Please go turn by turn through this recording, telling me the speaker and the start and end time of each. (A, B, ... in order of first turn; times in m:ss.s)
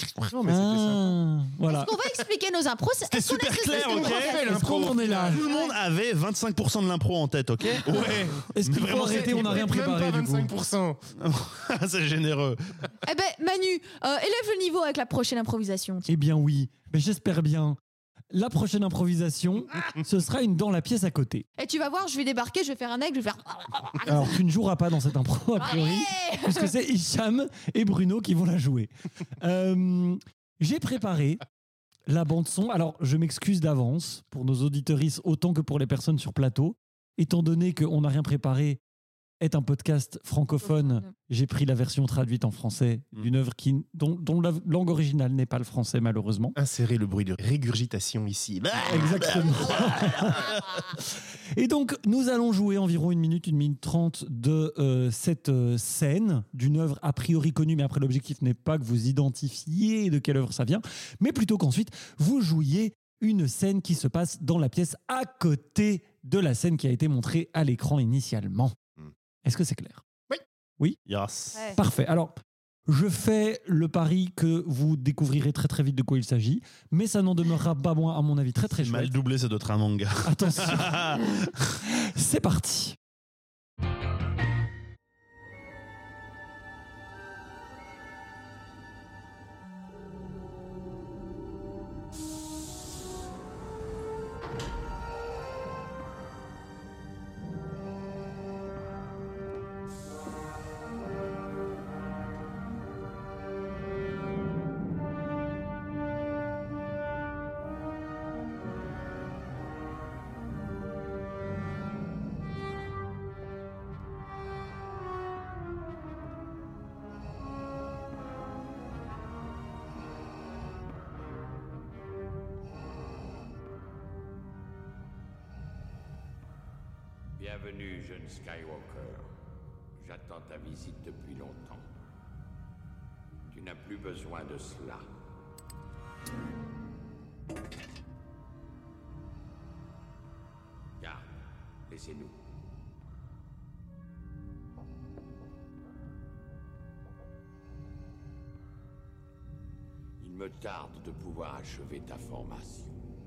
0:00.2-0:01.2 A
0:00.5-0:01.9 B
0:01.7-0:04.7 C
0:03.1-0:09.6 D
0:03.7-0:05.4 A
0:04.5-0:05.4 B
0:05.3-0:05.8 C
0:07.8-0:11.0 A
0:08.5-0:10.5 B
0:11.2-0:12.8 D
0:13.0-0:16.1 C
0:16.1-0:17.8 B
0:18.3-0:21.4 B
0:21.6-0:24.3 C
0:24.0-0:31.4 B
0:25.6-0:26.7 C
0:32.1-0:38.8 B
0:39.4-0:46.6 B
0:40.6-0:41.1 C
0:46.6-0:49.5 A
0:48.7-0:50.8 D
0:48.9-0:50.6 B
0:51.5-1:08.7 B
1:09.4-1:10.0 B
1:11.1-1:11.6 D
1:11.7-1:19.1 B
1:18.8-1:21.7 D
1:20.2-1:21.0 B
1:21.9-1:23.0 B
2:07.4-2:09.3 E
2:10.0-2:11.9 E
2:13.5-2:15.1 E
2:21.0-2:21.3 E
2:21.8-2:22.4 E
2:30.2-2:33.0 E